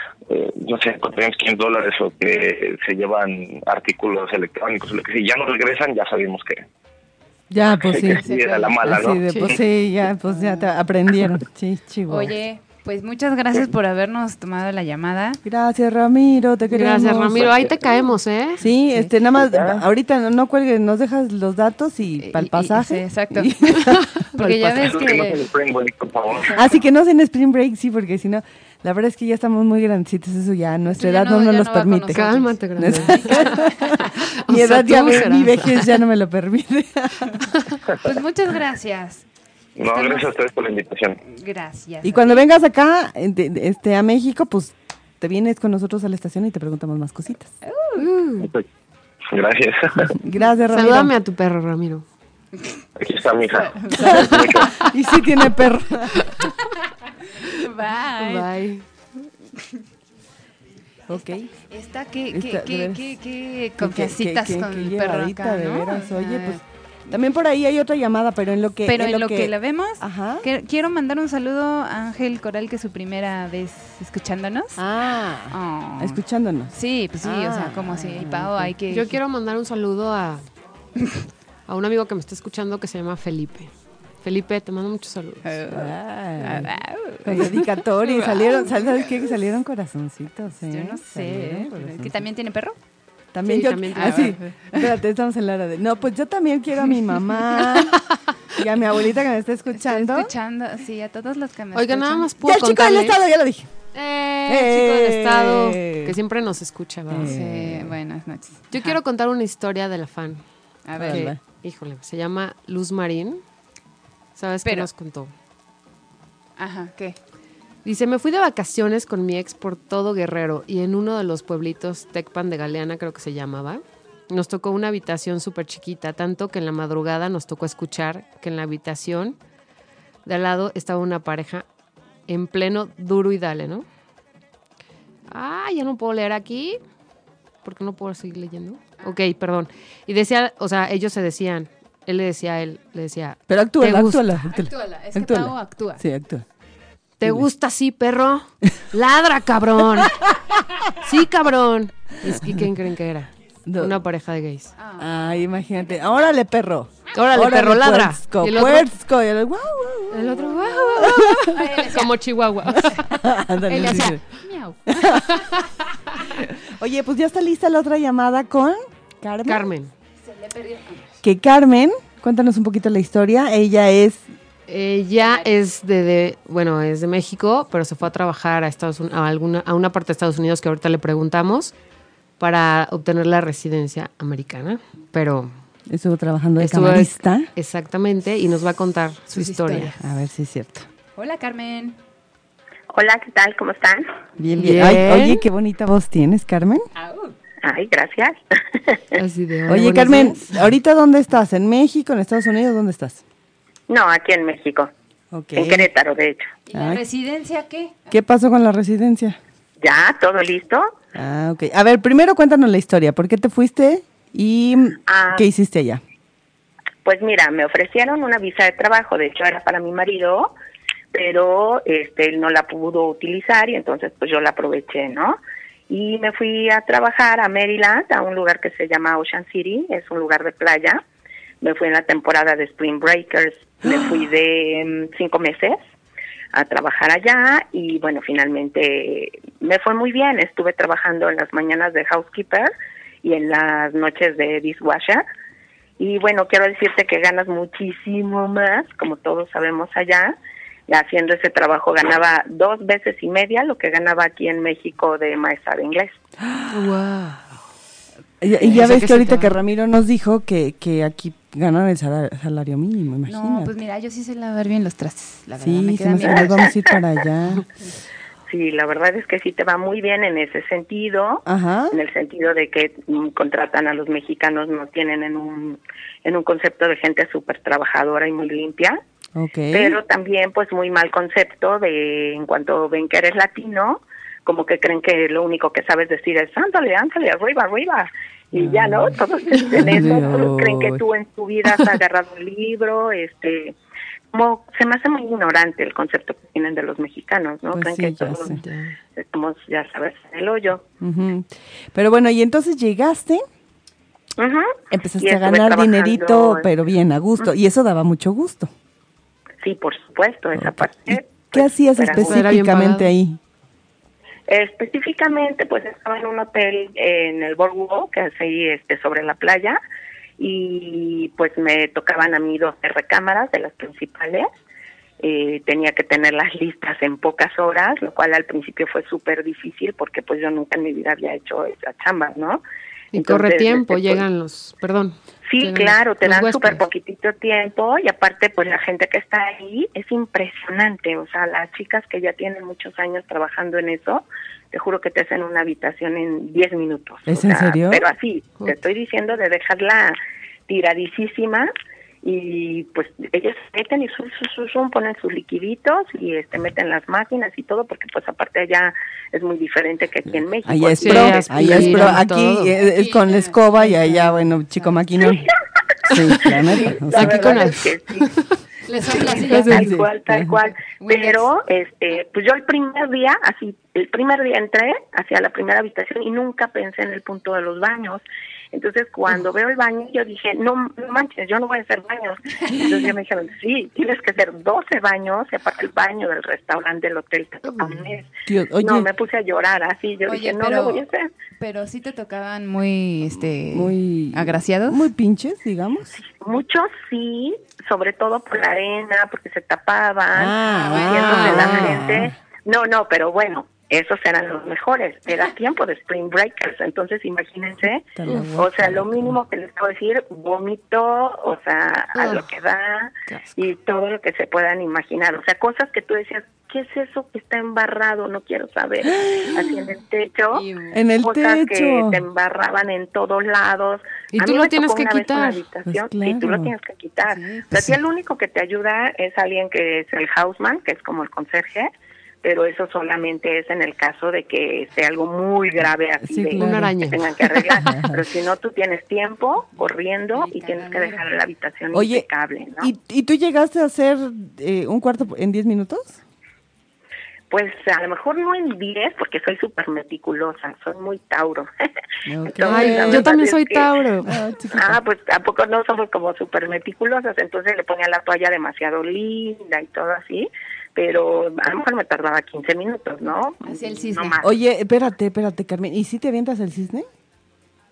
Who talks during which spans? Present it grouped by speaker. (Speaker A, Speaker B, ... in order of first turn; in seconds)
Speaker A: 0.3-6.7, 7.8-9.6, 19.4-19.8, 24.6-26.6, 39.8-41.2, 48.4-48.7, 49.3-50.1, 53.0-54.7
Speaker B: 7.5-8.2, 8.8-12.3, 15.4-17.7, 18.6-24.2, 26.6-32.2, 32.8-37.5, 42.0-47.5, 50.1-51.1, 53.9-56.3, 61.1-61.5, 62.3-63.1, 63.8-70.5, 74.8-78.7, 85.7-92.2, 93.3-98.0, 98.5-100.3, 102.4-103.7, 104.5-106.2, 107.1-107.9, 111.0-111.4, 143.5-146.4, 153.7-154.0, 155.0-161.6, 163.1-164.2, 164.9-165.4, 166.4-169.7, 171.2-174.3, 185.9-187.5, 190.0-190.9, 194.4-196.9, 199.7-203.2, 205.3-205.9, 206.7-207.0, 208.1-209.4, 211.2-216.0, 256.4-256.9, 258.4-263.7, 265.6-267.6, 271.4-272.0, 279.4-280.0, 288.6-289.2, 289.8-291.0, 297.7-298.6, 301.0-303.4, 304.9-308.7, 310.6-313.4, 347.3-348.1, 360.6-365.5, 366.1-367.6, 369.6-370.5, 388.5-389.1, 393.7-396.2, 400.3-402.4, 408.2-409.4, 419.0-419.8, 420.9-422.2, 425.9-426.7, 436.2-437.0, 437.8-438.2, 441.9-442.3, 442.8-446.2, 452.3-453.3, 454.3-455.0, 464.4-467.1
Speaker C: 8.1-9.1, 12.1-15.4, 22.2-25.4, 30.9-34.1, 38.0-39.2, 39.8-40.3, 41.2-42.4, 47.6-48.1, 53.5-54.2, 57.4-58.5, 61.5-66.6, 68.9-74.8, 75.5-76.2, 76.7-79.2, 85.4-89.3, 90.7-92.8, 93.9-95.0, 99.7-102.3, 107.2-109.0, 110.9-111.3, 114.6-114.9, 116.6-117.2, 144.5-146.0, 154.8-155.1, 161.5-162.2, 163.7-165.1, 170.2-171.2, 175.2-175.5, 189.3-190.1, 191.2-192.0, 197.0-197.3, 206.7-208.1, 263.3-266.7, 362.8-365.3, 368.9-369.8, 370.6-371.5, 390.3-391.1, 391.6-395.1, 400.7-401.9, 420.5-421.0, 427.2-427.7, 439.8-441.3, 463.6-464.4
Speaker D: 16.7-18.7, 32.1-36.0, 48.0-48.5, 50.7-52.0, 54.1-54.7, 58.2-58.9, 78.9-80.5, 81.7-85.5, 93.5-94.4, 101.7-103.2, 103.9-107.4, 108.7-110.4, 111.0-113.4, 114.4-115.3, 117.8-129.4, 130.2-131.7, 132.3-133.9, 135.3-136.8, 137.6-144.4, 147.2-150.2, 151.0-154.7, 157.1-158.9, 160.1-163.2, 163.8-164.1, 169.5-169.9, 174.7-181.7, 182.4-185.5, 186.6-189.9, 194.6-195.4, 199.2-200.7, 256.7-257.6, 258.6-259.5, 298.5-299.0, 312.1-313.1, 333.1-336.8, 361.0-362.8, 366.1-366.5, 367.1-368.5, 369.2-369.9, 387.6-388.1, 412.1-412.5, 413.3-413.7, 424.3-425.7, 436.6-437.8, 452.6-454.4
Speaker E: 192.9-194.1, 197.6-199.0, 203.9-204.9, 205.6-206.5, 209.8-210.9, 215.1-215.5, 217.1-220.5, 221.1-231.0, 231.6-235.8, 236.5-242.7, 243.2-245.2, 246.0-250.4, 250.9-256.1, 266.2-266.7, 268.5-279.0, 279.7-293.8, 294.3-298.6, 299.1-300.9, 304.4-306.7, 309.6-312.5, 314.5-319.8, 320.4-324.5, 325.2-332.6, 333.1-334.2, 335.5-350.2, 350.7-351.7, 352.2-362.1, 365.2-365.5, 366.5-368.3, 369.2-391.3, 396.3-420.7, 421.2-431.9, 432.4-442.9, 447.5-451.7, 452.5-453.9, 454.7-464.5